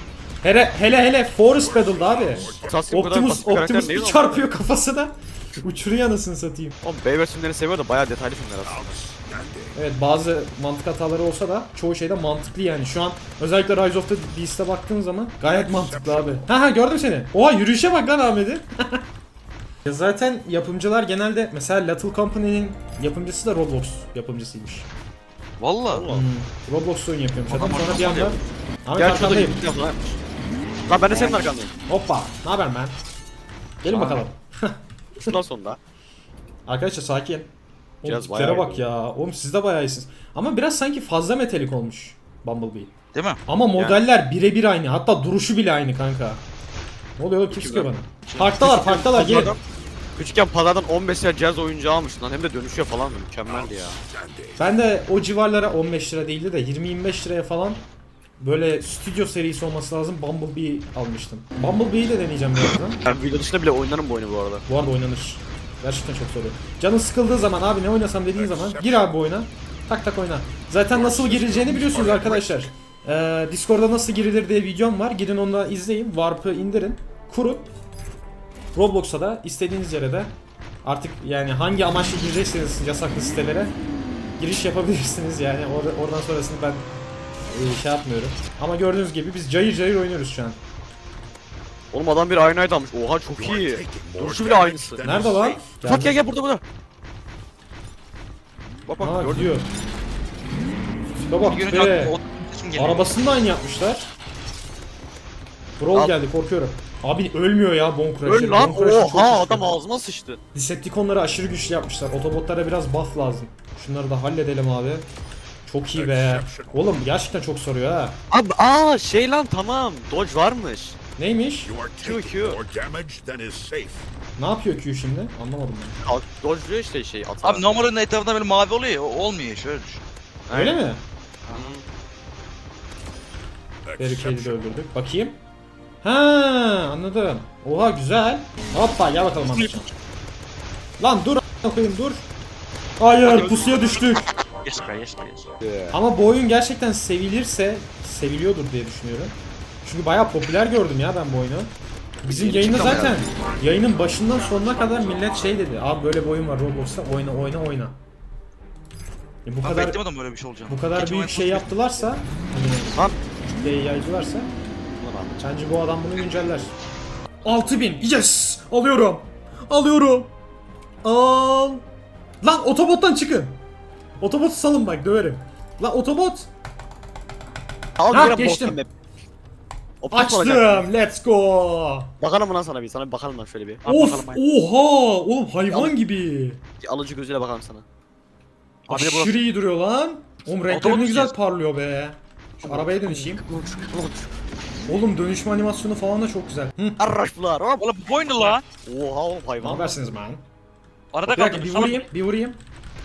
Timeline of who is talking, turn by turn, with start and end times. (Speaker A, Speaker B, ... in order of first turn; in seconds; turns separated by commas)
Speaker A: 0.4-6.8, Speaker B: 1.7-2.8, Speaker C: 2.6-4.5, Speaker C: 6.8-9.0, Speaker B: 8.7-9.7, Speaker A: 9.8-19.0, Speaker B: 15.5-16.4, Speaker A: 19.9-24.9, Speaker D: 25.6-26.1, Speaker C: 25.9-26.3, Speaker A: 26.1-29.6, Speaker D: 27.5-28.4, Speaker C: 29.0-30.2, Speaker C: 30.9-31.7, Speaker A: 31.9-33.0, Speaker A: 33.8-35.3, Speaker C: 33.8-34.2, Speaker C: 35.2-35.8, Speaker A: 36.7-37.5, Speaker A: 38.0-42.9, Speaker C: 38.0-38.9, Speaker D: 43.1-43.4, Speaker A: 43.5-46.4, Speaker C: 43.8-44.0, Speaker A: 47.2-49.6, Speaker C: 47.5-49.6, Speaker C: 50.2-54.0, Speaker A: 54.6-57.8, Speaker A: 58.4-63.0, Speaker C: 63.1-64.7, Speaker A: 64.7-77.7, Speaker B: 68.3-69.0, Speaker B: 71.0-72.4, Speaker A: 78.8-80.3, Speaker A: 80.8-83.7, Speaker A: 84.4-86.9, Speaker A: 87.5-90.6, Speaker C: 91.9-95.1, Speaker B: 93.4-95.7, Speaker A: 95.0-96.2, Speaker C: 95.8-96.6, Speaker C: 98.9-99.5, Speaker A: 99.0-99.7, Speaker A: 101.1-102.2, Speaker D: 101.4-103.0, Speaker A: 102.8-104.1, Speaker A: 105.8-109.8, Speaker C: 108.2-110.4, Speaker A: 110.5-115.1, Speaker A: 115.7-118.2, Speaker B: 115.9-116.7, Speaker C: 118.3-121.0, Speaker A: 121.2-121.7, Speaker B: 121.7-124.0, Speaker C: 122.0-122.6, Speaker A: 124.4-126.0, Speaker C: 126.0-127.8, Speaker D: 127.4-130.0, Speaker C: 130.5-130.8, Speaker A: 130.5-131.0, Speaker D: 131.5-131.7, Speaker C: 131.5-131.8, Speaker B: 133.9-134.7, Speaker A: 134.0-135.4, Speaker A: 136.0-139.9, Speaker A: 141.0-142.3, Speaker A: 143.0-144.3, Speaker D: 144.6-145.6, Speaker C: 145.6-146.0, Speaker A: 145.9-151.7, Speaker A: 152.2-158.0, Speaker C: 152.3-153.3, Speaker A: 159.5-160.0, Speaker D: 159.6-161.7, Speaker A: 160.7-164.5, Speaker C: 165.0-165.5, Speaker A: 165.4-166.7, Speaker A: 167.4-170.3, Speaker A: 171.0-171.8, Speaker A: 172.4-173.6, Speaker A: 174.2-176.5, Speaker C: 178.0-178.9, Speaker A: 178.1-178.8, Speaker C: 180.0-180.9, Speaker A: 180.1-182.1, Speaker C: 182.2-183.8, Speaker D: 183.8-184.4, Speaker A: 183.9-186.6, Speaker C: 185.7-185.9, Speaker C: 186.8-187.8, Speaker D: 188.9-189.3, Speaker A: 188.9-193.4, Speaker C: 189.0-189.3, Speaker D: 190.7-191.3, Speaker C: 192.6-194.3, Speaker A: 194.9-197.0, Speaker C: 197.0-200.0, Speaker D: 197.8-198.6, Speaker A: 199.6-200.4, Speaker D: 201.1-202.1, Speaker A: 201.3-202.6